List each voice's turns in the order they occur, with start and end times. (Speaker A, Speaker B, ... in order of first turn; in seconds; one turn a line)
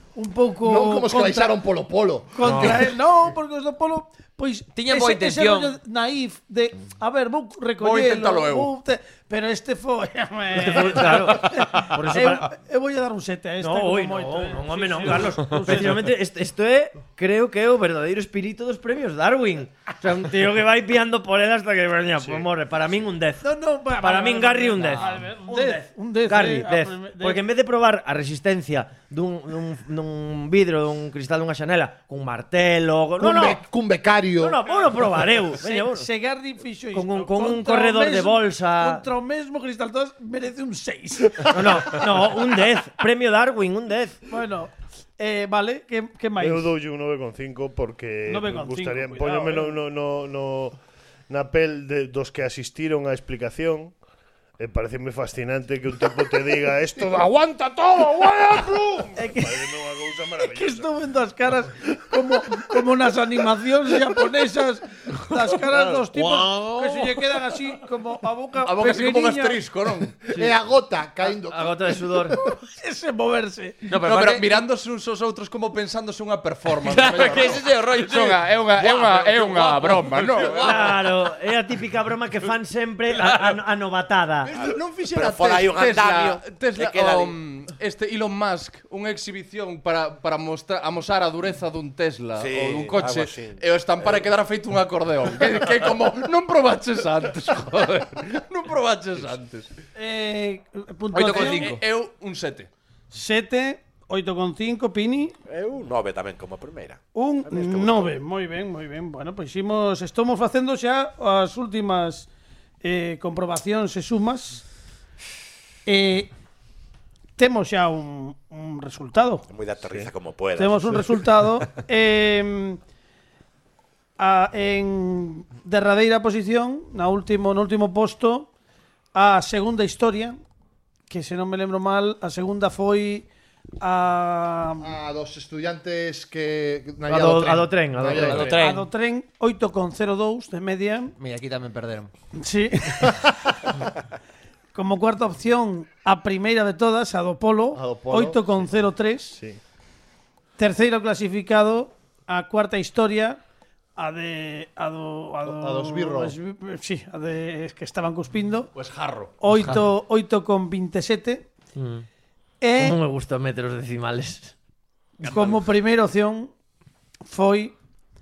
Speaker A: 0.1-1.6
Speaker B: 0.6-2.9
Speaker A: 2.3-16.1
Speaker C: 2.4-2.8
Speaker D: 4.8-5.7
Speaker E: 7.8-8.7
Speaker C: 10.5-12.5
Speaker C: 13.6-33.6
Speaker A: 23.4-27.4
Speaker B: 33.2-34.6
Speaker C: 34.4-36.1
Speaker A: 35.6-42.1
Speaker C: 36.9-39.1
Speaker C: 41.4-44.2
Speaker A: 44.3-46.7
Speaker F: 46.4-50.8
Speaker A: 48.3-49.7
Speaker F: 51.3-54.0
Speaker F: 54.6-60.9
Speaker A: 59.2-59.6
Speaker A: 60.4-69.6
Speaker F: 65.7-66.1
Speaker E: 66.1-67.4
Speaker E: 68.6-70.2
Speaker B: 70.3-72.4
Speaker C: 71.2-72.4
Speaker A: 72.5-73.8
Speaker D: 73.9-74.5
Speaker E: 74.0-81.0
Speaker D: 76.8-81.3
Speaker C: 80.6-84.5
Speaker E: 84.5-99.7
Speaker G: 84.6-87.3
Speaker G: 92.4-94.2
Speaker A: 100.0-101.7
Speaker D: 101.1-101.8
Speaker E: 101.2-102.7
Speaker A: 103.1-105.3
Speaker G: 105.5-108.2
Speaker A: 107.1-112.3
Speaker A: 112.8-114.6
Speaker A: 115.9-116.3
Speaker A: 117.4-119.4
Speaker G: 119.5-121.2
Speaker A: 120.6-122.8
Speaker A: 124.2-128.5
Speaker A: 129.1-130.4
Speaker A: 131.1-133.3
Speaker A: 133.8-134.9
Speaker B: 134.8-138.6
Speaker C: 137.1-138.6
Speaker D: 138.1-138.9
Speaker A: 138.6-141.1
Speaker D: 141.2-142.1
Speaker A: 142.4-143.7
Speaker A: 144.7-149.4
Speaker B: 147.8-148.4
Speaker F: 149.3-149.6
Speaker A: 150.6-153.4
Speaker A: 154.0-158.7
Speaker B: 155.4-156.4
Speaker E: 158.8-159.3
Speaker A: 159.4-161.5
Speaker C: 161.8-162.1
Speaker A: 162.6-163.0
Speaker C: 162.8-164.6
Speaker A: 165.2-166.5
Speaker E: 165.3-165.6
Speaker A: 167.3-167.8